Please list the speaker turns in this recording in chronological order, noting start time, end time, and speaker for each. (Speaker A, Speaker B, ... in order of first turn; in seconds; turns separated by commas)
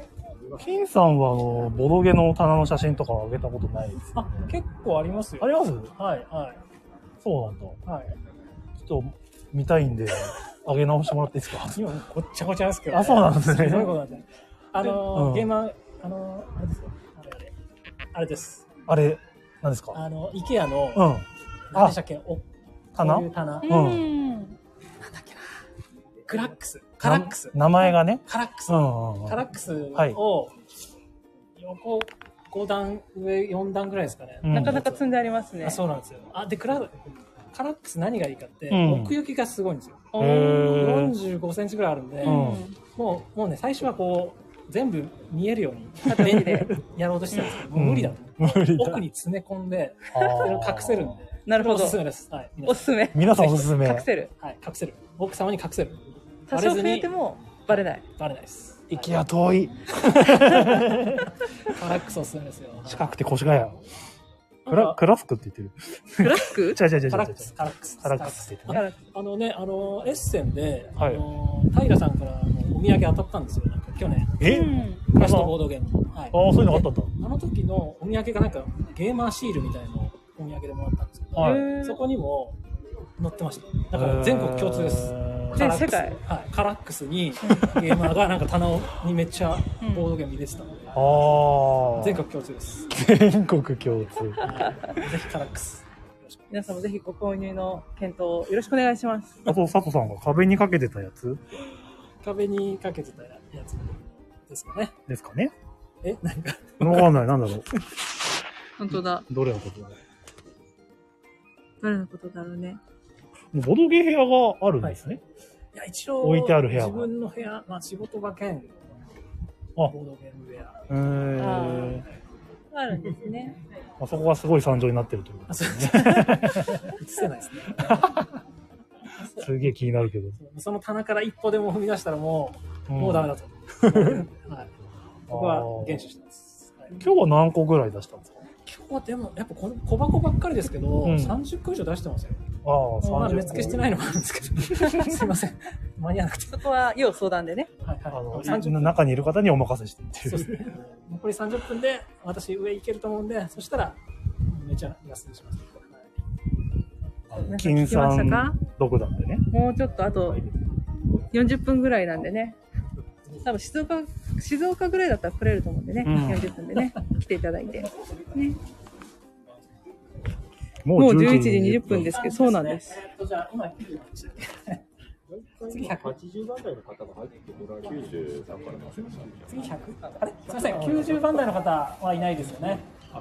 Speaker A: 0.6-4.5, Speaker B: 4.2-6.6, Speaker A: 5.4-5.9, Speaker A: 7.2-7.8, Speaker B: 7.8-8.2, Speaker A: 8.8-11.9, Speaker B: 11.6-17.5, Speaker A: 12.9-14.0, Speaker A: 14.8-15.5, Speaker B: 18.1-18.7, Speaker A: 18.9-20.0, Speaker B: 19.9-21.2, Speaker A: 20.9-22.0, Speaker B: 21.7-23.8, Speaker A: 23.0-24.1, Speaker C: 23.6-24.6, Speaker B: 25.0-25.6, Speaker B: 26.3-30.6, Speaker A: 27.0-30.2, Speaker B: 31.6-37.0, Speaker A: 34.4-34.8, Speaker C: 34.5-35.8, Speaker B: 37.5-40.1, Speaker A: 38.7-39.2, Speaker C: 40.1-41.0, Speaker A: 40.2-41.2, Speaker B: 40.7-53.1, Speaker A: 42.2-42.7, Speaker C: 42.2-42.8, Speaker C: 46.0-46.7, Speaker A: 46.2-46.8, Speaker A: 47.7-49.1, Speaker A: 50.1-51.2, Speaker C: 51.5-52.0, Speaker C: 52.6-54.3, Speaker A: 53.1-54.1, Speaker B: 54.4-58.9, Speaker C: 56.5-58.0, Speaker A: 58.9-61.3, Speaker B: 61.7-63.1, Speaker A: 62.9-63.8, Speaker B: 64.7-65.0, Speaker A: 64.7-68.8, Speaker C: 66.2-66.8, Speaker B: 67.0-82.6, Speaker C: 68.7-69.0, Speaker A: 71.0-71.2, Speaker A: 74.4-75.6, Speaker C: 74.4-75.1, Speaker A: 76.3-77.1, Speaker A: 81.4-81.7, Speaker C: 81.4-82.0, Speaker B: 83.2-91.1, Speaker A: 83.9-85.7, Speaker C: 85.5-86.2, Speaker C: 87.4-87.7, Speaker C: 89.8-90.1, Speaker A: 90.9-92.2, Speaker B: 91.9-92.9, Speaker A: 92.9-94.5, Speaker B: 94.4-96.5, Speaker C: 96.5-99.4, Speaker A: 99.5-101.5, Speaker B: 102.2-105.0, Speaker A: 105.1-105.5, Speaker B: 106.0-107.1, Speaker A: 106.8-107.7, Speaker C: 108.8-109.3, Speaker A: 109.3-110.0, Speaker C: 111.8-112.8, Speaker A: 113.5-115.2, Speaker B: 115.7-118.8, Speaker A: 116.2-117.1, Speaker B: 119.8-120.8, Speaker A: 120.9-122.1, Speaker C: 121.4-122.0, Speaker C: 122.7-123.6, Speaker A: 124.0-126.9, Speaker B: 125.5-128.1, Speaker A: 127.8-128.3, Speaker A: 129.4-130.4, Speaker B: 130.4-134.7, Speaker A: 132.9-134.3, Speaker B: 135.3-137.0, Speaker A: 135.3-136.1, Speaker A: 137.0-138.5, Speaker B: 138.6-142.4, Speaker A: 141.0-141.4, Speaker A: 142.6-144.0, Speaker B: 143.0-146.6, Speaker C: 146.5-147.7, Speaker B: 147.8-149.0, Speaker A: 148.1-150.8, Speaker B: 150.2-156.2, Speaker A: 157.3-159.5, Speaker C: 157.5-158.6, Speaker C: 159.5-160.4, Speaker C: 161.3-162.6, Speaker C: 163.4-168.6, Speaker A: 166.0-166.6, Speaker A: 170.8-172.2, Speaker C: 170.9-173.0, Speaker B: 171.9-174.8, Speaker D: 175.3-179.6, Speaker B: 175.7-176.2, Speaker B: 179.5-182.9